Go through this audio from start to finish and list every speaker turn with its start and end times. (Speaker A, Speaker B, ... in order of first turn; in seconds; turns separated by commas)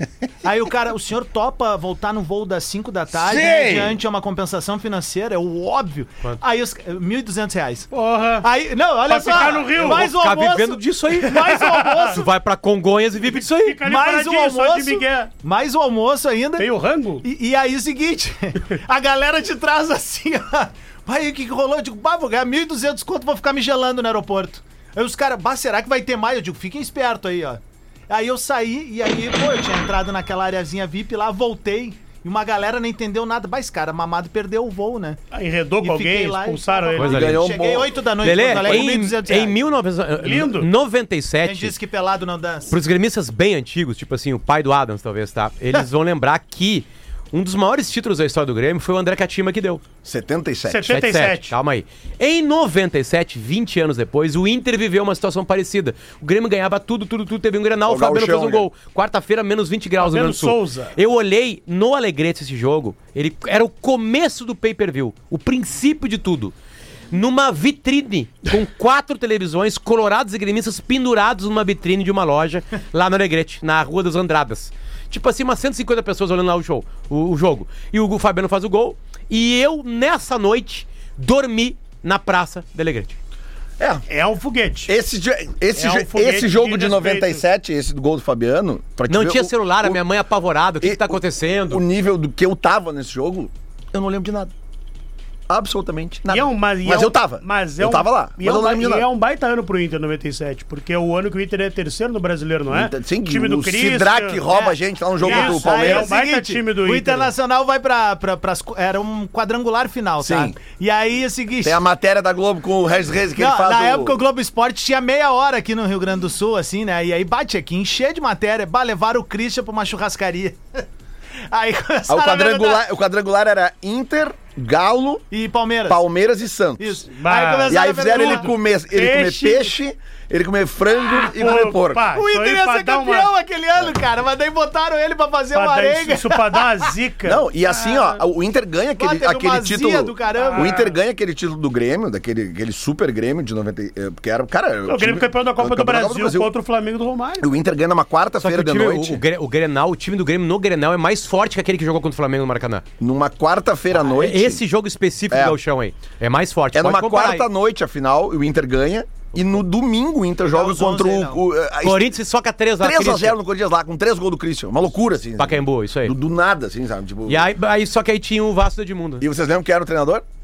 Speaker A: 0.4-7.9, Speaker B: 3.1-4.0, Speaker C: 7.9-8.5, Speaker A: 8.4-12.3, Speaker C: 9.1-10.1, Speaker D: 9.8-13.8, Speaker C: 11.4-12.1, Speaker C: 13.2-15.3, Speaker A: 13.8-16.7, Speaker C: 16.6-17.2, Speaker A: 17.2-35.2, Speaker C: 35.3-37.4, Speaker A: 35.8-39.6, Speaker D: 37.0-37.4, Speaker B: 37.0-38.8, Speaker D: 38.2-41.7, Speaker C: 40.2-40.7, Speaker A: 41.4-42.8, Speaker D: 42.7-49.8, Speaker B: 50.0-51.0, Speaker C: 50.7-51.5, Speaker D: 50.9-66.5, Speaker B: 57.9-58.7, Speaker C: 60.0-60.9, Speaker D: 67.1-83.2, Speaker B: 83.8-84.0, Speaker C: 84.1-84.9, Speaker B: 84.9-90.0, Speaker C: 85.8-87.4, Speaker D: 89.1-91.8, Speaker B: 90.8-94.5, Speaker B: 95.5-99.1, Speaker C: 96.3-104.4, Speaker B: 102.7-106.1, Speaker A: 104.5-111.8, Speaker C: 105.2-107.3, Speaker B: 110.2-110.6, Speaker B: 111.6-114.2, Speaker A: 113.3-120.8, Speaker A: 121.5-122.8, Speaker B: 122.1-125.2, Speaker A: 125.3-126.0, Speaker B: 125.9-127.0, Speaker A: 126.8-128.5, Speaker C: 127.1-129.7, Speaker B: 127.7-132.1, Speaker C: 131.2-133.3, Speaker A: 132.1-136.9, Speaker C: 135.5-138.1, Speaker B: 137.2-146.5, Speaker A: 139.0-140.8, Speaker C: 140.3-140.9, Speaker C: 144.8-147.5, Speaker B: 147.4-149.2, Speaker D: 148.4-152.8, Speaker B: 153.0-154.6, Speaker D: 153.9-157.4, Speaker B: 155.3-155.6, Speaker B: 156.7-162.1, Speaker A: 160.5-161.4, Speaker D: 161.8-163.4, Speaker B: 162.8-167.5, Speaker D: 165.4-166.1, Speaker D: 167.3-169.2, Speaker B: 169.2-170.2